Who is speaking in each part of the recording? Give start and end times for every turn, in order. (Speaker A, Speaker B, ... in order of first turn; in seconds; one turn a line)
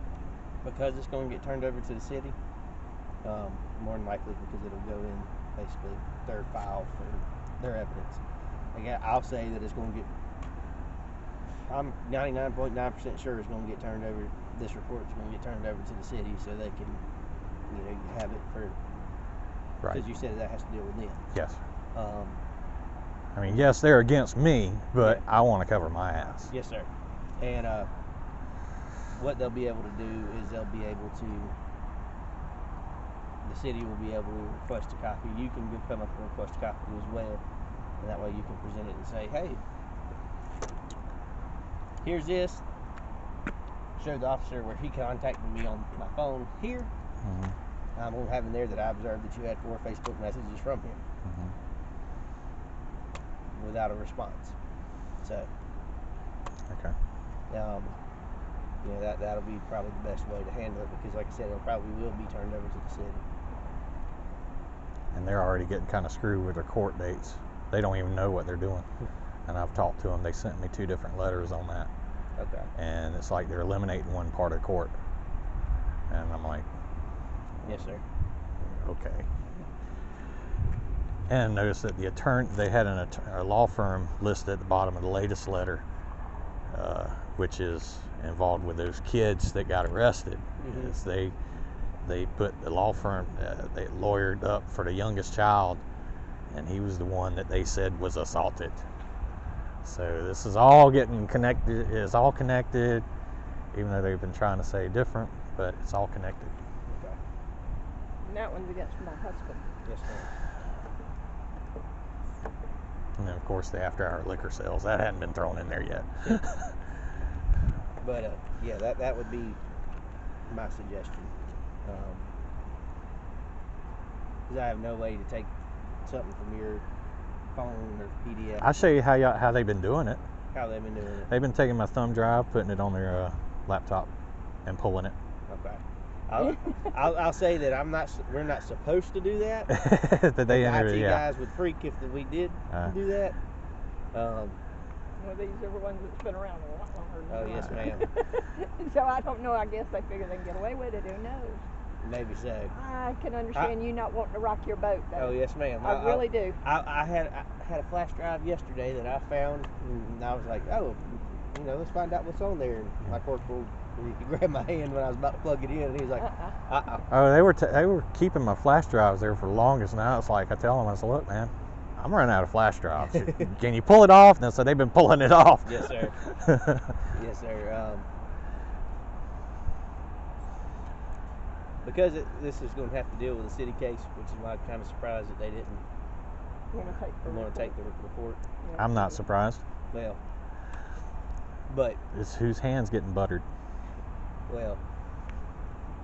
Speaker A: 0.6-2.4
Speaker A: 3.2-8.2
Speaker A: 8.8-10.1
Speaker A: 11.7-17.0
Speaker A: 17.7-18.8
Speaker A: 19.9-21.2
Speaker B: 21.3-21.6
Speaker A: 21.9-22.4
Speaker B: 23.4-26.5
Speaker A: 25.0-25.2
Speaker A: 26.5-26.9
Speaker A: 27.4-27.9
Speaker A: 29.1-31.5
Speaker A: 33.4-37.4
Speaker A: 38.0-39.6
Speaker A: 42.0-42.6
Speaker A: 44.0-46.9
Speaker B: 47.2-47.5
Speaker A: 48.0-51.0
Speaker B: 51.2-51.5
Speaker A: 53.5-54.5
Speaker A: 55.2-55.5
Speaker A: 57.5-58.0
Speaker A: 58.8-63.2
Speaker B: 65.1-68.9
Speaker B: 69.5-71.9
Speaker A: 72.4-72.7
Speaker B: 72.8-74.9
Speaker B: 76.1-76.7
Speaker A: 77.6-78.0
Speaker B: 78.6-79.3
Speaker B: 81.3-85.8
Speaker B: 86.7-91.3
Speaker A: 90.6-91.0
Speaker B: 92.0-95.8
Speaker B: 96.5-98.8
Speaker B: 99.8-103.0
Speaker B: 103.7-106.5
Speaker A: 106.9-107.2
Speaker C: 108.2-109.7
Speaker A: 109.8-110.3
Speaker B: 113.2-116.5
Speaker A: 118.0-119.6
Speaker A: 120.5-121.3
Speaker A: 121.8-122.3
Speaker A: 124.5-125.5
Speaker A: 126.0-126.8
Speaker A: 127.5-128.8
Speaker B: 128.6-130.2
Speaker A: 130.5-131.3
Speaker B: 131.3-134.1
Speaker B: 134.7-135.2
Speaker A: 135.5-139.8
Speaker B: 139.7-141.2
Speaker A: 140.5-143.4
Speaker A: 144.1-144.6
Speaker C: 145.2-151.6
Speaker A: 147.3-148.1
Speaker A: 152.0-152.7
Speaker C: 152.7-156.6
Speaker A: 155.1-167.1
Speaker B: 167.1-176.9
Speaker A: 173.1-173.5
Speaker A: 175.6-176.2
Speaker A: 177.1-178.1
Speaker A: 181.8-185.8
Speaker C: 186.7-187.8
Speaker A: 187.2-188.4
Speaker C: 188.6-189.2
Speaker B: 188.8-189.6
Speaker A: 189.9-190.2
Speaker A: 191.7-192.0
Speaker B: 192.1-193.4
Speaker A: 194.5-194.8